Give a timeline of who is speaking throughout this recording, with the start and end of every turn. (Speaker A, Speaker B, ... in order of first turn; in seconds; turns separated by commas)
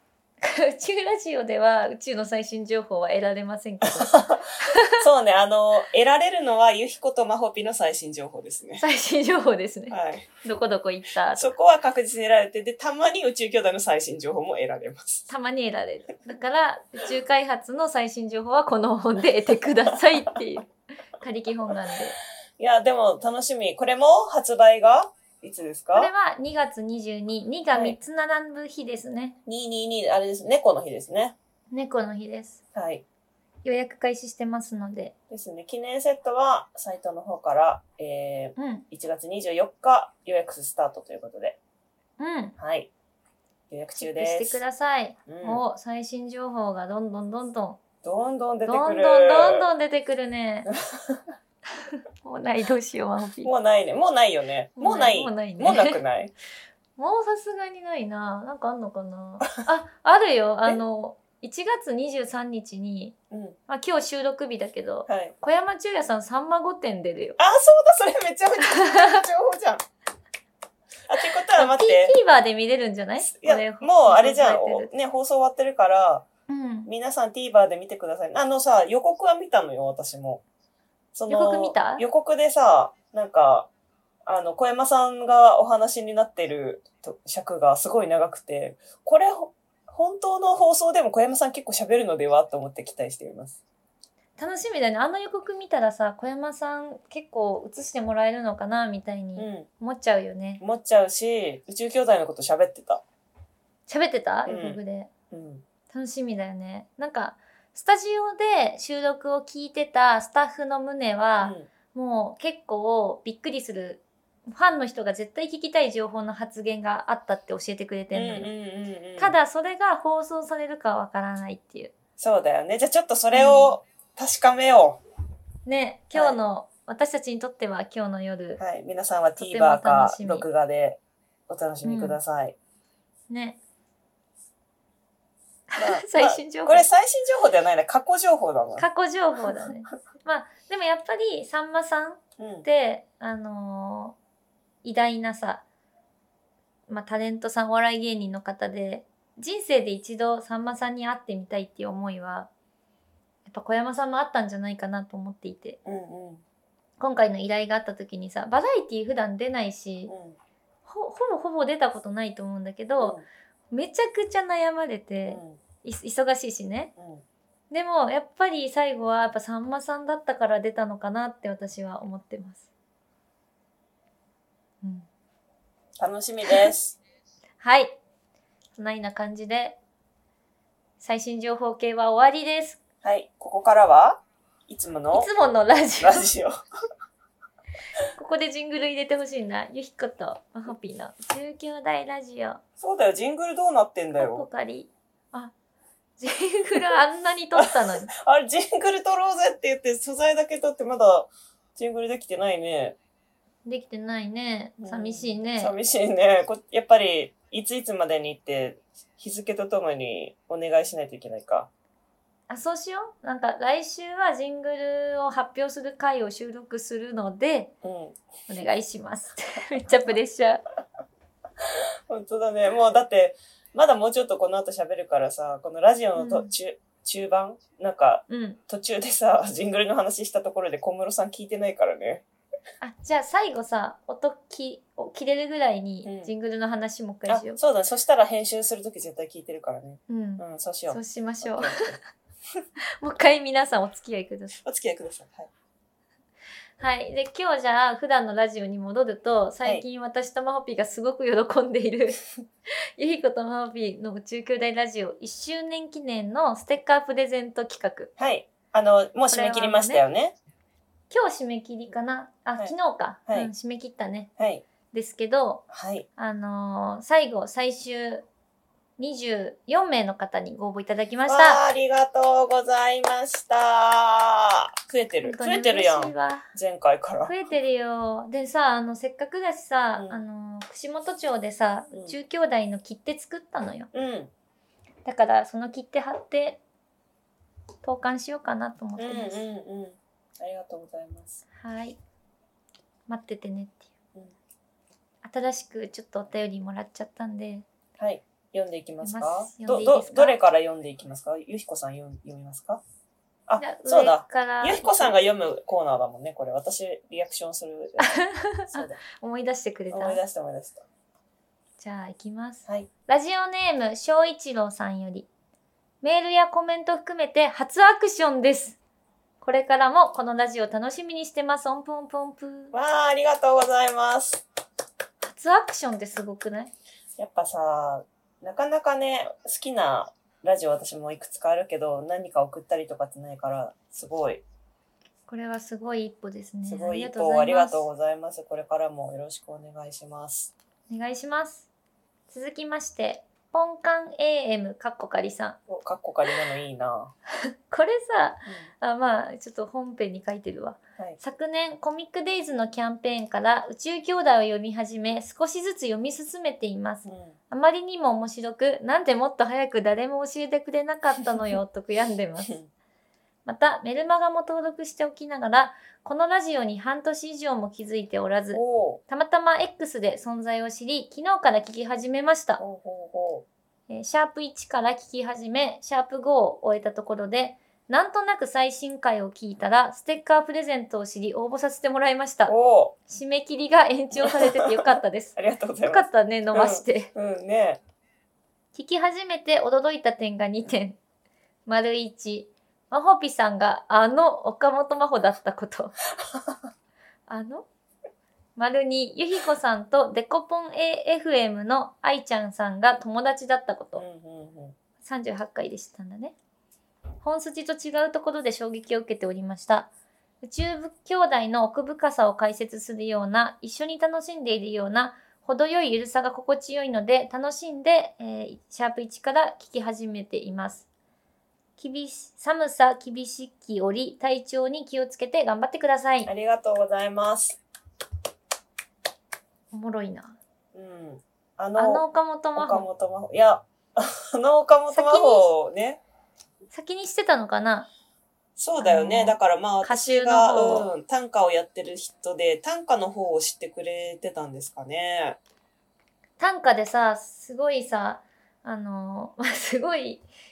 Speaker A: 0.4-5.0, Speaker B: 4.0-8.8, Speaker A: 8.8-11.5, Speaker B: 9.9-10.3, Speaker B: 11.3-15.3, Speaker A: 15.3-22.2, Speaker B: 22.6-26.1, Speaker A: 25.9-29.4, Speaker B: 29.5-31.4, Speaker A: 31.7-32.6, Speaker B: 32.7-33.0, Speaker A: 33.6-35.1, Speaker B: 35.3-41.6, Speaker A: 38.6-38.9, Speaker A: 42.2-42.6, Speaker B: 42.6-42.9, Speaker B: 43.7-44.6, Speaker A: 43.9-47.8, Speaker B: 45.3-45.6, Speaker B: 48.0-49.6, Speaker A: 48.7-50.7, Speaker B: 50.7-51.2, Speaker A: 51.9-53.5, Speaker B: 53.4-56.3, Speaker A: 54.8-56.0, Speaker A: 57.0-63.2, Speaker B: 63.3-63.6, Speaker A: 63.7-67.4, Speaker B: 65.1-65.3, Speaker B: 67.4-69.8, Speaker A: 68.7-69.2, Speaker B: 71.1-72.2, Speaker A: 71.6-74.9, Speaker B: 73.2-76.3, Speaker A: 76.5-76.9, Speaker B: 76.9-80.4, Speaker B: 81.1-83.7, Speaker A: 81.3-82.0, Speaker B: 84.2-93.6, Speaker A: 94.4-100.6, Speaker B: 99.4-99.7, Speaker B: 100.6-103.0, Speaker A: 103.9-105.1, Speaker B: 104.5-105.7, Speaker A: 105.9-118.5, Speaker B: 111.4-111.7, Speaker B: 118.1-119.4, Speaker A: 119.2-121.9, Speaker B: 122.2-125.0, Speaker A: 123.3-123.8, Speaker A: 125.7-128.6, Speaker B: 128.6-132.6, Speaker A: 129.4-130.5, Speaker A: 131.8-132.2, Speaker A: 133.3-133.6, Speaker A: 135.7-136.9, Speaker B: 135.8-138.9, Speaker A: 138.8-144.2, Speaker B: 142.4-142.7, Speaker A: 144.8-145.6, Speaker A: 146.9-152.5, Speaker A: 153.5-155.8, Speaker B: 155.8-156.4, Speaker A: 157.0-160.1, Speaker B: 160.1-160.4, Speaker A: 160.9-163.2, Speaker B: 163.0-163.2, Speaker A: 163.7-166.9, Speaker B: 165.3-165.6, Speaker B: 167.0-167.2, Speaker A: 167.7-172.7, Speaker A: 174.8-175.1, Speaker B: 176.0-177.0, Speaker A: 177.6-178.0, Speaker A: 178.8-179.8, Speaker A: 181.0-182.8, Speaker B: 183.0-185.3, Speaker A: 185.1-186.3, Speaker B: 186.0-186.5, Speaker A: 188.2-192.6, Speaker B: 192.8-194.5, Speaker A: 194.2-195.5, Speaker A: 196.2-198.1, Speaker B: 197.6-203.0, Speaker A: 203.7-205.7, Speaker B: 204.8-211.7, Speaker A: 212.5-217.7, Speaker B: 217.8-218.2, Speaker A: 218.5-220.6, Speaker B: 221.6-232.2, Speaker A: 226.2-226.5, Speaker A: 228.3-228.6, Speaker A: 232.8-237.6, Speaker B: 236.1-236.3, Speaker B: 237.3-242.0, Speaker A: 240.1-241.9, Speaker A: 243.0-244.6, Speaker B: 244.6-245.5, Speaker A: 246.8-252.2, Speaker A: 253.0-258.1, Speaker B: 258.2-260.4, Speaker A: 259.3-260.0, Speaker A: 261.1-264.3, Speaker B: 264.4-264.6, Speaker A: 264.9-265.6, Speaker B: 265.7-266.1, Speaker A: 266.2-268.3, Speaker A: 269.0-271.6, Speaker B: 271.3-277.3, Speaker A: 275.2-276.5, Speaker A: 277.2-283.9, Speaker B: 280.0-280.2, Speaker B: 283.9-284.3, Speaker A: 285.1-286.6, Speaker A: 287.8-289.4, Speaker B: 289.0-291.4, Speaker A: 291.6-292.0, Speaker A: 293.1-293.9, Speaker A: 295.2-297.7, Speaker B: 298.0-302.8, Speaker A: 299.0-300.4, Speaker B: 303.5-308.2, Speaker A: 303.6-305.1, Speaker A: 308.0-310.2, Speaker B: 308.7-309.0, Speaker B: 309.9-310.9, Speaker A: 311.8-315.3, Speaker A: 316.0-318.8, Speaker A: 319.4-322.7, Speaker B: 322.7-324.4, Speaker A: 325.2-326.7, Speaker B: 327.2-334.4, Speaker A: 335.3-337.9, Speaker B: 336.7-340.5, Speaker A: 340.9-341.7, Speaker A: 342.3-345.6, Speaker B: 345.7-347.1, Speaker A: 347.7-362.6, Speaker B: 357.1-357.4, Speaker A: 363.4-372.6, Speaker B: 368.5-369.0, Speaker B: 372.6-373.5, Speaker A: 373.9-382.5, Speaker B: 382.5-383.0, Speaker A: 383.1-387.1, Speaker B: 384.2-387.8, Speaker A: 388.7-391.0, Speaker A: 391.7-396.0, Speaker A: 397.3-397.7, Speaker A: 398.6-404.1, Speaker B: 404.0-404.8, Speaker A: 405.0-406.4, Speaker A: 407.2-409.9, Speaker A: 410.4-420.9, Speaker A: 421.8-426.3, Speaker B: 426.3-427.6, Speaker A: 429.7-430.4, Speaker B: 430.7-432.0, Speaker A: 431.8-432.9, Speaker B: 432.6-436.0, Speaker A: 434.9-435.5, Speaker A: 436.7-437.9, Speaker B: 438.6-445.4, Speaker A: 438.8-440.9, Speaker A: 446.4-450.2